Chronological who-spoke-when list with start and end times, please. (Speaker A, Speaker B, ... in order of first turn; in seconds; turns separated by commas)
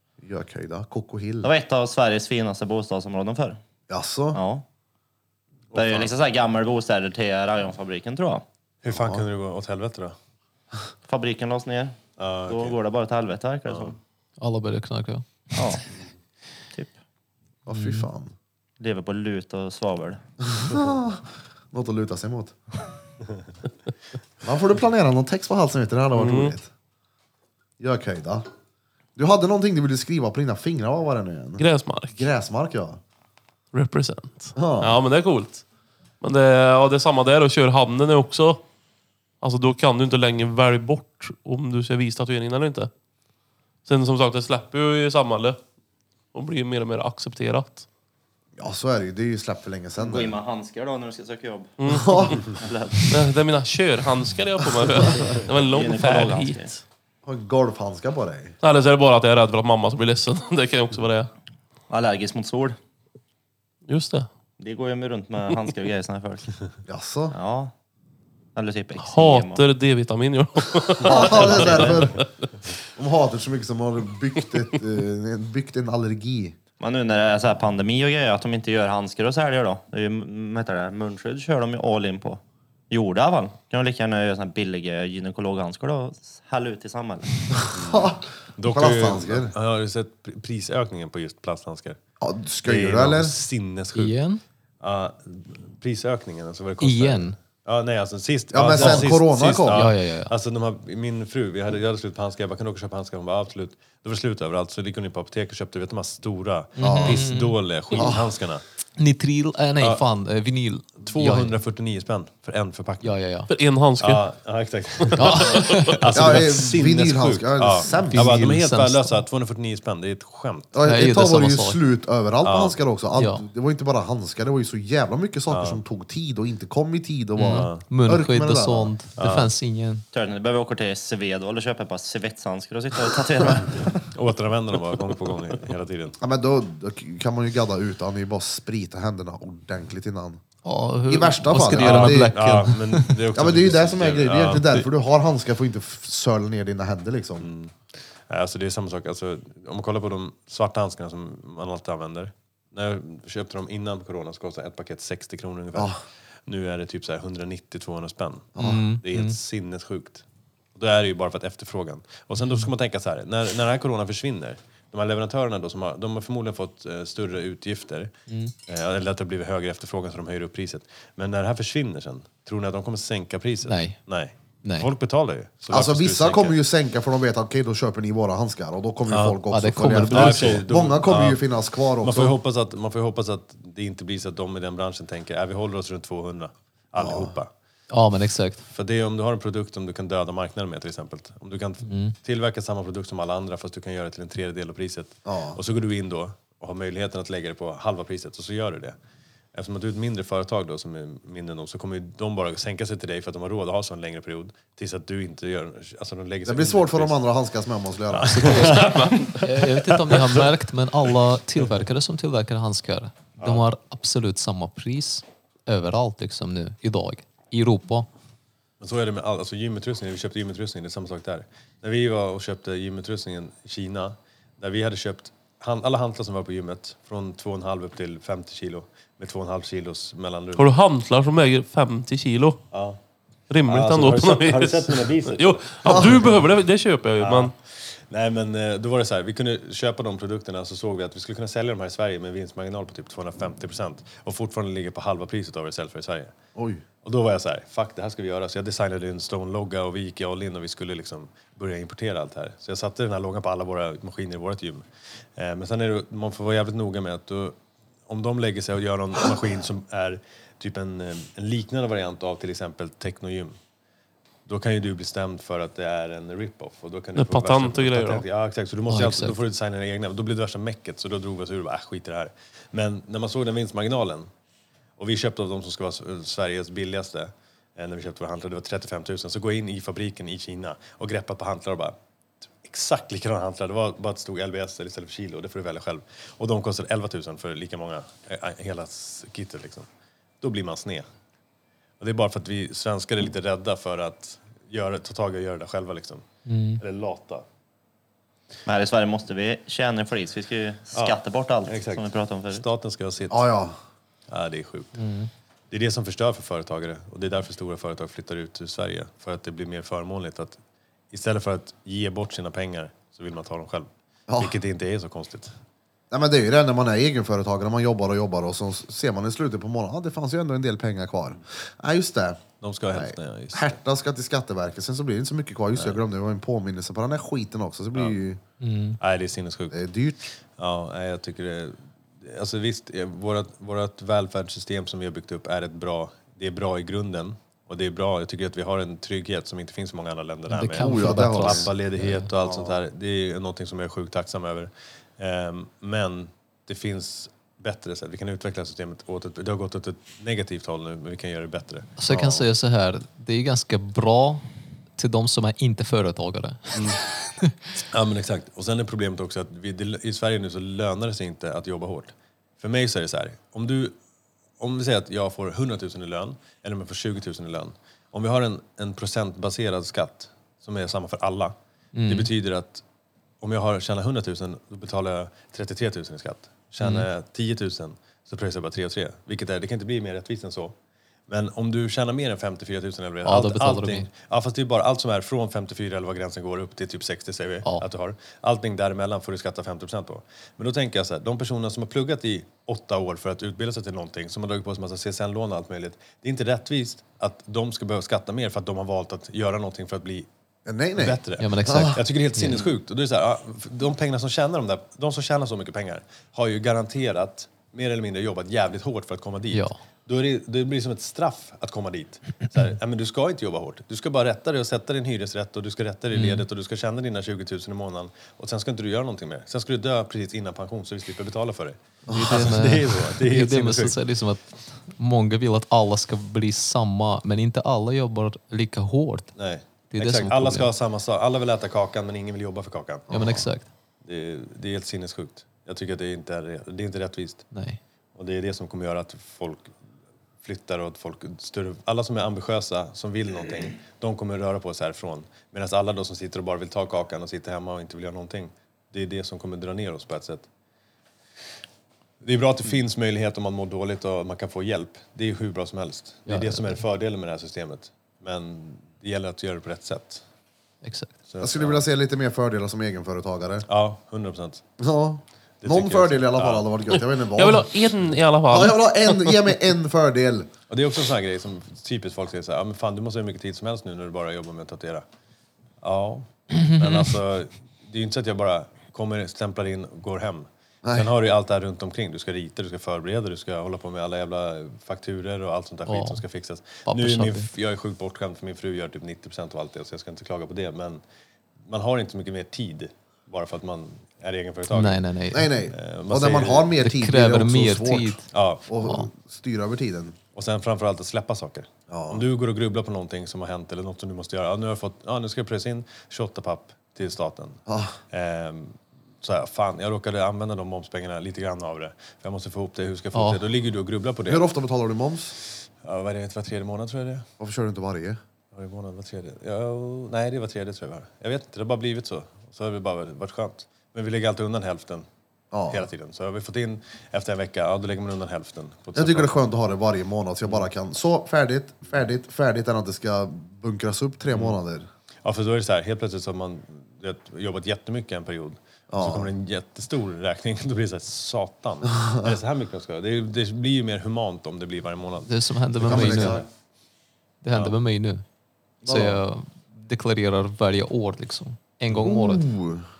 Speaker A: 0.2-1.5, Speaker B: 1.4-3.6, Speaker A: 3.9-4.4, Speaker B: 4.3-4.6, Speaker C: 5.7-6.1, Speaker B: 5.7-8.4, Speaker C: 8.8-10.1, Speaker A: 8.9-9.2, Speaker B: 11.1-14.0, Speaker C: 12.2-12.8, Speaker C: 13.7-13.9, Speaker D: 14.4-15.2, Speaker B: 15.5-15.8, Speaker A: 17.6-18.3, Speaker D: 17.7-18.1, Speaker B: 18.8-20.2, Speaker A: 20.4-22.6, Speaker A: 24.4-26.7, Speaker E: 26.1-26.5, Speaker A: 27.8-28.4, Speaker A: 29.1-33.0, Speaker E: 31.6-32.3, Speaker E: 33.7-35.6, Speaker A: 34.5-35.0, Speaker E: 36.2-38.6, Speaker E: 39.4-42.9, Speaker E: 43.8-45.6, Speaker E: 46.3-47.9, Speaker A: 48.6-50.4, Speaker B: 50.0-53.1, Speaker E: 51.8-52.4, Speaker A: 51.9-52.4, Speaker E: 53.1-56.8, Speaker B: 55.1-56.7, Speaker A: 57.2-58.5, Speaker E: 58.6-61.3, Speaker B: 61.9-62.8, Speaker E: 63.9-64.3, Speaker B: 64.6-66.5, Speaker A: 66.8-67.3, Speaker B: 67.3-67.7, Speaker B: 68.5-69.6, Speaker E: 69.0-72.3, Speaker A: 71.0-72.2, Speaker B: 71.1-71.8, Speaker A: 73.0-76.5, Speaker B: 76.8-87.3, Speaker A: 87.6-89.5, Speaker C: 87.7-92.0, Speaker A: 92.2-93.3, Speaker C: 92.6-94.2, Speaker D: 93.9-94.4, Speaker C: 94.8-108.6, Speaker D: 96.8-97.3, Speaker A: 98.5-99.8, Speaker D: 98.8-99.0, Speaker D: 99.7-100.3, Speaker D: 106.8-107.6, Speaker A: 106.8-107.2, Speaker A: 108.0-108.3, Speaker D: 109.0-111.5, Speaker C: 111.0-113.1, Speaker D: 113.0-113.5, Speaker E: 113.5-114.3, Speaker C: 114.0-120.7, Speaker E: 115.0-116.0, Speaker D: 115.1-116.3, Speaker A: 116.1-118.4, Speaker D: 118.0-119.2, Speaker A: 120.7-128.9, Speaker D: 120.8-121.8, Speaker C: 122.4-122.8, Speaker D: 123.2-123.5, Speaker C: 125.5-125.8, Speaker D: 127.4-130.0, Speaker C: 127.4-127.8, Speaker C: 129.2-129.5, Speaker B: 130.1-134.0, Speaker C: 133.9-136.2, Speaker A: 136.2-140.4, Speaker D: 140.6-143.2, Speaker A: 141.1-142.3, Speaker C: 141.7-144.8, Speaker A: 143.3-147.5, Speaker C: 147.4-147.8, Speaker C: 148.3-160.2, Speaker A: 158.6-158.8, Speaker D: 158.6-159.4, Speaker C: 160.8-168.1, Speaker D: 168.3-168.5, Speaker C: 168.7-176.6, Speaker D: 173.6-174.0, Speaker A: 175.7-182.4, Speaker C: 179.1-179.4, Speaker D: 179.5-180.6, Speaker C: 180.1-187.5, Speaker A: 187.0-187.3, Speaker D: 187.9-188.7, Speaker C: 188.7-198.9, Speaker D: 191.8-192.1, Speaker A: 195.2-195.6, Speaker C: 199.5-207.2, Speaker A: 206.4-208.7, Speaker C: 208.1-210.4, Speaker D: 208.3-218.1, Speaker E: 208.5-209.4, Speaker C: 213.4-213.6, Speaker C: 218.8-230.7, Speaker E: 230.5-232.6, Speaker C: 232.7-233.0, Speaker E: 233.5-237.5, Speaker C: 233.7-236.3, Speaker A: 235.8-236.3, Speaker C: 237.2-246.3, Speaker A: 246.5-246.8, Speaker C: 247.0-254.8, Speaker C: 255.4-257.6, Speaker C: 258.1-263.6, Speaker C: 264.4-274.3, Speaker E: 267.1-268.2, Speaker D: 268.9-269.3, Speaker C: 275.0-281.9, Speaker C: 282.6-289.9, Speaker C: 290.4-291.1, Speaker C: 292.0-296.2, Speaker D: 296.4-296.8, Speaker C: 296.8-297.4, Speaker B: 298.6-302.6, Speaker C: 300.9-303.5, Speaker A: 303.3-303.8, Speaker C: 304.3-304.9, Speaker D: 304.9-305.3, Speaker C: 305.7-310.6, Speaker C: 311.1-315.5, Speaker A: 314.3-314.5, Speaker A: 316.1-328.4, Speaker C: 322.6-323.7, Speaker C: 325.8-326.0, Speaker D: 328.6-329.0, Speaker C: 329.0-329.8, Speaker A: 329.7-330.2, Speaker C: 330.5-352.0, Speaker D: 340.5-342.3, Speaker A: 340.6-341.7, Speaker A: 342.4-342.7, Speaker D: 352.0-354.4, Speaker A: 352.1-352.4, Speaker D: 354.9-357.5, Speaker C: 356.7-357.0, Speaker C: 357.9-363.9, Speaker C: 364.6-371.6, Speaker D: 371.9-372.3, Speaker C: 372.1-372.8, Speaker C: 373.4-380.7, Speaker D: 376.8-377.1, Speaker C: 381.3-400.3, Speaker D: 383.2-384.1, Speaker A: 400.6-402.0, Speaker C: 400.9-423.9, Speaker D: 401.4-402.7, Speaker D: 416.1-416.4, Speaker A: 422.1-422.4, Speaker D: 422.1-429.3, Speaker C: 429.3-433.1, Speaker D: 429.9-430.7, Speaker A: 433.1-433.4, Speaker D: 433.1-433.7, Speaker C: 434.0-437.5, Speaker D: 437.5-437.8, Speaker C: 438.1-439.7, Speaker C: 440.4-450.5, Speaker C: 452.2-460.2, Speaker D: 456.3-456.8, Speaker D: 460.8-461.1, Speaker C: 461.3-461.9, Speaker A: 461.4-463.6, Speaker C: 463.7-464.6, Speaker A: 464.8-467.7, Speaker C: 465.6-466.7, Speaker E: 467.3-469.4, Speaker A: 468.5-470.5, Speaker C: 470.7-475.0, Speaker C: 475.8-491.0, Speaker D: 476.5-477.1, Speaker A: 480.8-481.1, Speaker D: 485.9-486.2, Speaker D: 486.9-487.5, Speaker C: 491.7-495.0, Speaker D: 494.7-495.5, Speaker A: 495.3-500.2, Speaker C: 495.7-496.7, Speaker D: 496.8-498.3, Speaker C: 498.3-498.7, Speaker D: 498.8-499.1, Speaker C: 500.3-507.6, Speaker A: 501.9-502.2, Speaker A: 507.7-508.0, Speaker C: 508.1-514.5, Speaker D: 513.1-513.4, Speaker A: 514.3-515.3, Speaker C: 515.8-517.3, Speaker A: 517.4-518.2, Speaker C: 518.5-525.0, Speaker A: 525.5-525.9, Speaker C: 525.7-529.4, Speaker A: 528.9-534.9, Speaker C: 534.3-534.6, Speaker C: 535.2-546.5, Speaker A: 538.9-539.3, Speaker A: 541.9-542.3, Speaker D: 545.2-546.4, Speaker A: 545.8-546.4, Speaker D: 547.4-548.2, Speaker A: 548.8-549.2, Speaker D: 548.8-552.5, Speaker A: 551.9-552.8